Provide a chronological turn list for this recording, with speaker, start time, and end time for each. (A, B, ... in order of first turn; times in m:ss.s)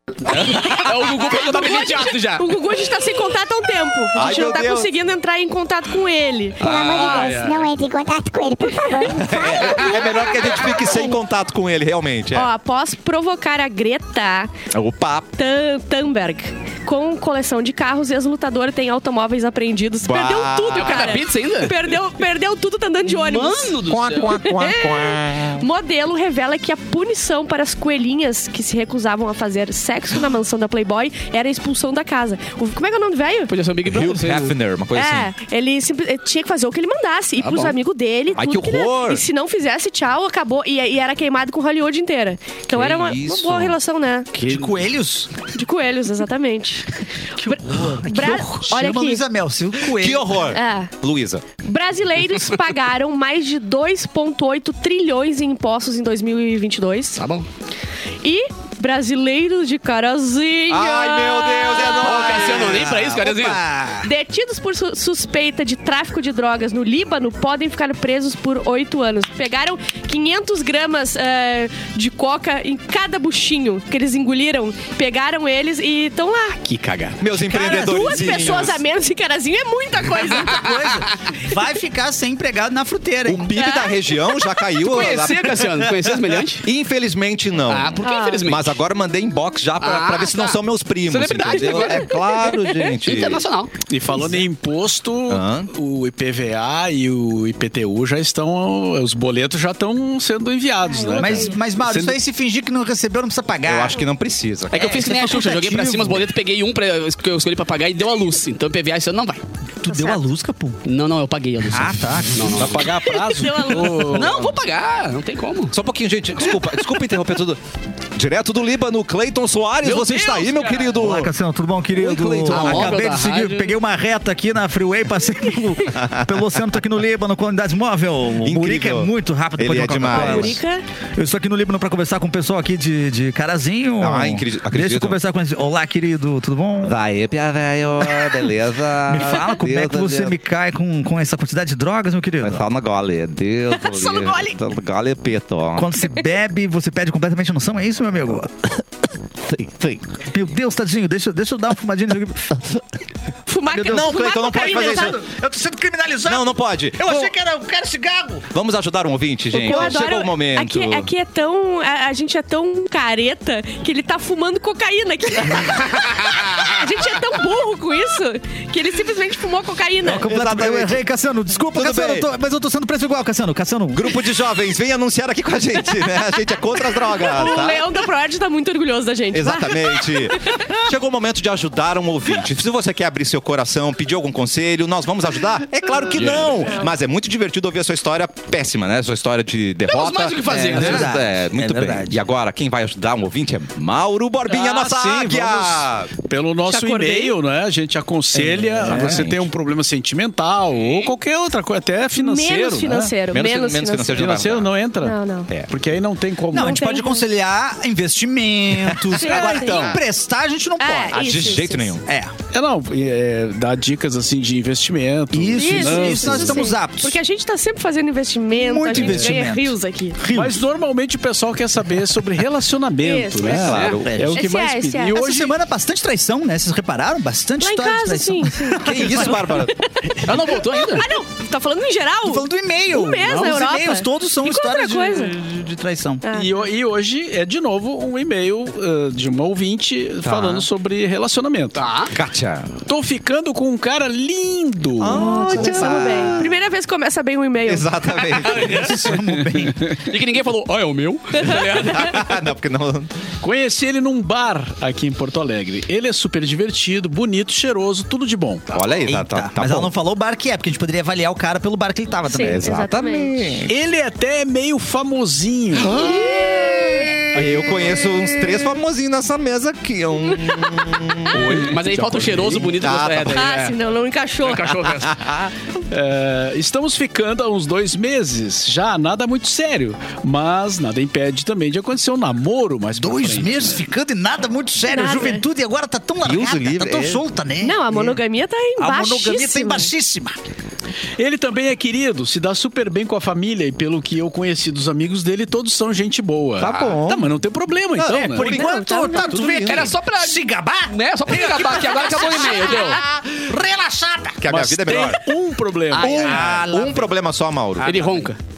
0:00.3-0:00.8 A
0:00.3-0:02.6 B
0:01.2-0:07.2 C
0:04.2-0:04.9 D
0:06.6-0:10.5 A
0:06.6-0:07.4 D
0:06.8-0:07.6 B
0:09.2-0:12.5 D
0:12.3-0:14.5 C
0:14.7-0:15.3 D
0:15.4-0:33.5 C
0:20.0-0:21.2 D
0:20.8-0:22.0 B
0:23.1-0:24.4 B
0:23.8-0:25.6 D
0:33.5-0:34.5 B
0:33.9-0:35.3 D
0:34.9-0:44.3 C
0:37.4-0:37.8 B
0:38.4-0:39.2 D
0:42.8-0:43.8 D
0:44.4-0:45.3 E
0:44.4-0:44.7 B
0:45.5-0:49.2 C
0:47.4-0:50.5 E
0:49.9-0:51.4 D
0:50.5-0:50.9 C
0:51.6-0:57.2 C
0:57.2-0:57.5 B
0:58.2-1:02.6 C
1:00.7-1:03.0 D
1:01.8-1:04.1 E
1:01.8-1:03.6 B
1:04.0-1:16.6 C
1:16.6-1:17.2 B
1:17.2-1:18.8 D
1:17.5-1:18.6 E
1:17.5-1:20.7 C
1:20.1-1:23.6 E
1:20.6-1:21.0 B
1:23.3-1:25.8 D
1:23.6-1:24.5 C
1:24.8-1:26.7 B
1:26.6-1:33.4 D
1:27.7-1:28.8 B
1:28.0-1:28.4 C
1:29.8-1:33.7 B
1:31.9-1:32.9 C
1:33.9-1:42.2 F
1:35.3-1:35.7 D
1:40.9-1:41.6 C
1:41.2-1:44.0 E
1:43.6-1:45.0 D
1:44.7-1:49.4 B
1:44.7-1:46.3 E
1:49.8-1:50.8 E
1:49.9-1:50.2 C
1:50.8-1:52.9 B
1:51.7-1:52.7 E
1:52.6-1:54.6 F
1:53.0-1:54.2 C
1:53.9-1:55.7 B
1:55.7-1:57.6 D
1:58.2-2:01.3 D
1:59.8-2:00.9 B
2:00.9-2:10.6 E
2:02.0-2:03.0 D
2:02.4-2:03.8 B
2:05.9-2:06.4 D
2:08.4-2:10.6 D
2:10.1-2:10.8 C
2:11.2-2:17.0 E
2:14.0-2:15.2 D
2:16.8-2:20.4 D
2:18.0-2:18.5 E
2:19.1-2:22.6 E
2:22.4-2:25.9 D
2:23.8-2:24.6 C
2:25.8-2:28.7 E
2:29.4-2:30.2 D
2:30.2-2:32.8 E
2:33.5-2:35.2 C
2:33.7-2:38.5 E
2:33.8-2:35.2 D
2:36.3-2:37.3 D
2:38.5-2:41.1 D
2:39.5-2:50.3 C
2:39.7-2:39.9 E
2:50.0-2:54.2 E
2:50.2-2:51.0 D
2:51.7-2:52.3 D
2:53.9-2:57.9 D
2:57.1-3:00.6 C
2:59.3-3:16.1 D
3:06.2-3:06.5 B
3:06.6-3:06.9 C
3:09.9-3:11.1 B
3:10.6-3:12.2 E
3:14.5-3:23.2 F
3:16.7-3:17.4 C
3:18.4-3:19.4 D
3:18.9-3:19.3 E
3:22.2-3:24.3 C
3:23.3-3:24.7 D
3:24.1-3:25.2 F
3:25.0-3:25.5 C
3:25.7-3:26.8 F
3:26.5-3:31.5 E
3:26.5-3:27.3 C
3:28.9-3:30.0 D
3:29.1-3:30.0 C
3:29.3-3:30.0 F
3:30.8-3:32.0 C
3:31.1-3:32.0 D
3:32.0-3:32.3 E
3:32.5-3:36.7 F
3:35.3-3:37.2 E
3:35.5-3:40.2 C
3:38.5-3:40.6 E
3:39.0-3:39.3 F
3:40.3-3:45.5 F
3:43.0-3:43.7 C
3:43.4-3:44.4 D
3:43.7-3:44.0 B
3:44.0-3:44.4 E
3:44.4-3:45.2 C
3:45.1-3:49.6 E
3:47.6-3:55.3 C
3:48.8-3:49.8 D
3:50.2-3:51.1 B
3:50.3-3:50.6 F
3:52.2-3:56.2 E
3:56.2-3:56.5 C
3:56.3-4:01.8 F
4:00.2-4:00.7 D
4:01.8-4:02.1 B
4:02.1-4:02.7 D
4:02.9-4:05.6 F
4:05.0-4:06.5 D
4:05.1-4:08.5 C
4:05.6-4:06.2 E
4:07.6-4:09.0 D
4:08.4-4:09.9 E
4:08.6-4:10.0 F
4:09.9-4:12.2 B
4:11.4-4:13.1 D
4:13.4-4:18.8 F
4:18.7-4:19.9 D
4:19.0-4:22.7 E
4:22.3-4:23.6 C
4:22.3-4:23.7 D
4:23.7-4:26.0 F
4:25.9-4:31.8 D
4:26.0-4:27.1 C
4:26.2-4:28.2 E
4:31.3-4:33.8 B
4:31.3-4:32.8 F
4:32.6-4:33.5 D
4:33.3-4:34.8 C
4:34.4-4:35.2 B
4:34.9-4:35.5 D
4:35.9-4:43.8 F
4:43.0-4:48.2 E
4:44.9-4:45.4 C
4:46.2-4:47.2 D
4:47.6-4:49.9 C
4:48.8-4:50.4 E
4:51.2-4:58.6 F
4:56.6-4:57.3 D
4:58.0-4:59.9 D
4:58.0-5:04.5 E
4:58.4-4:59.4 C
4:59.5-5:03.0 B
5:02.9-5:03.3 D
5:04.4-5:05.3 D
5:04.5-5:06.4 F
5:06.0-5:08.3 D
5:06.0-5:07.1 E
5:07.8-5:08.4 B